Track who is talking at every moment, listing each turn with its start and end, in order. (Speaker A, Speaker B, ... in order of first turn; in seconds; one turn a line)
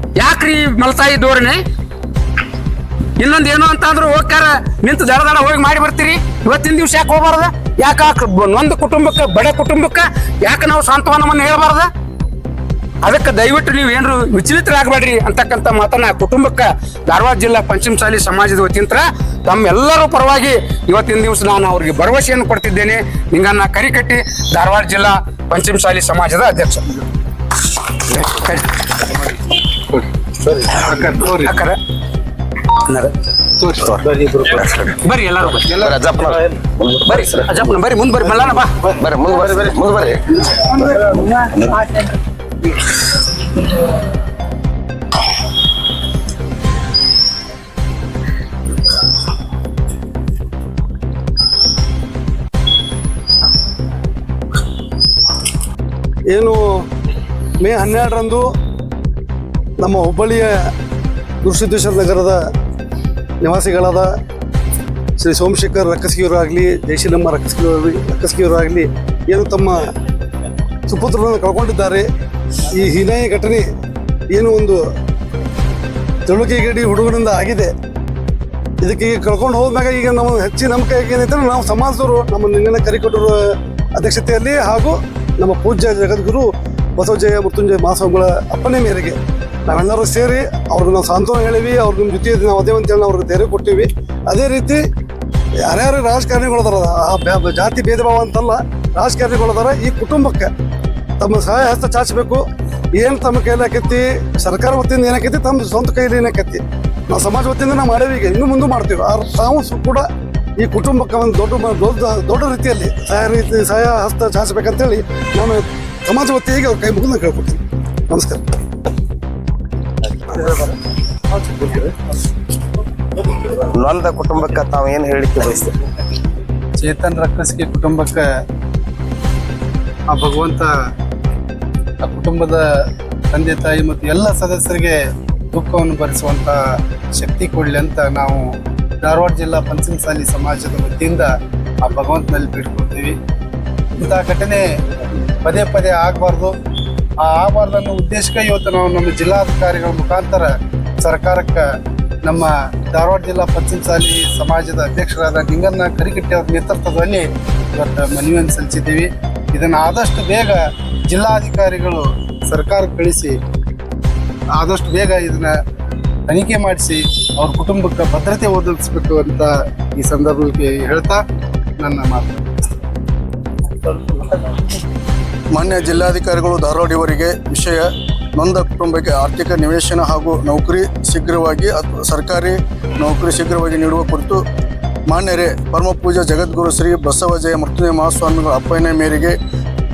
Speaker A: 0.2-1.6
Speaker A: 3.2-11.9
Speaker A: 13.0-26.9
Speaker A: 28.0-29.1
Speaker A: 30.5-31.8
Speaker B: 30.5-31.6
Speaker B: 33.6-34.6
Speaker C: 34.6-34.9
Speaker A: 34.6-35.9
Speaker B: 35.7-36.1
Speaker C: 35.8-37.5
Speaker A: 37.0-38.9
Speaker C: 39.0-40.2
Speaker B: 40.6-41.9
Speaker D: 56.3-56.9
Speaker D: 57.6-58.5
Speaker D: 59.8-60.5
Speaker D: 61.4-62.4
Speaker D: 63.4-64.1
Speaker D: 65.2-69.8
Speaker D: 70.9-72.1
Speaker D: 72.7-73.7
Speaker D: 74.3-74.8
Speaker D: 76.2-77.7
Speaker D: 78.8-83.4
Speaker D: 84.0-94.8
Speaker D: 95.7-100.5
Speaker D: 101.2-102.4
Speaker D: 103.0-110.0
Speaker D: 110.6-118.4
Speaker C: 123.7-125.7
Speaker B: 126.8-128.3
Speaker B: 130.1-130.7
Speaker B: 132.0-143.2
Speaker B: 143.9-144.8
Speaker B: 145.4-146.5
Speaker B: 147.2-151.7
Speaker B: 152.2-163.4
Speaker B: 164.5-165.6
Speaker B: 166.3-171.2
Speaker B: 171.8-172.6
Speaker B: 173.9-174.6
Speaker E: 175.5-184.4
Speaker E: 185.1-189.4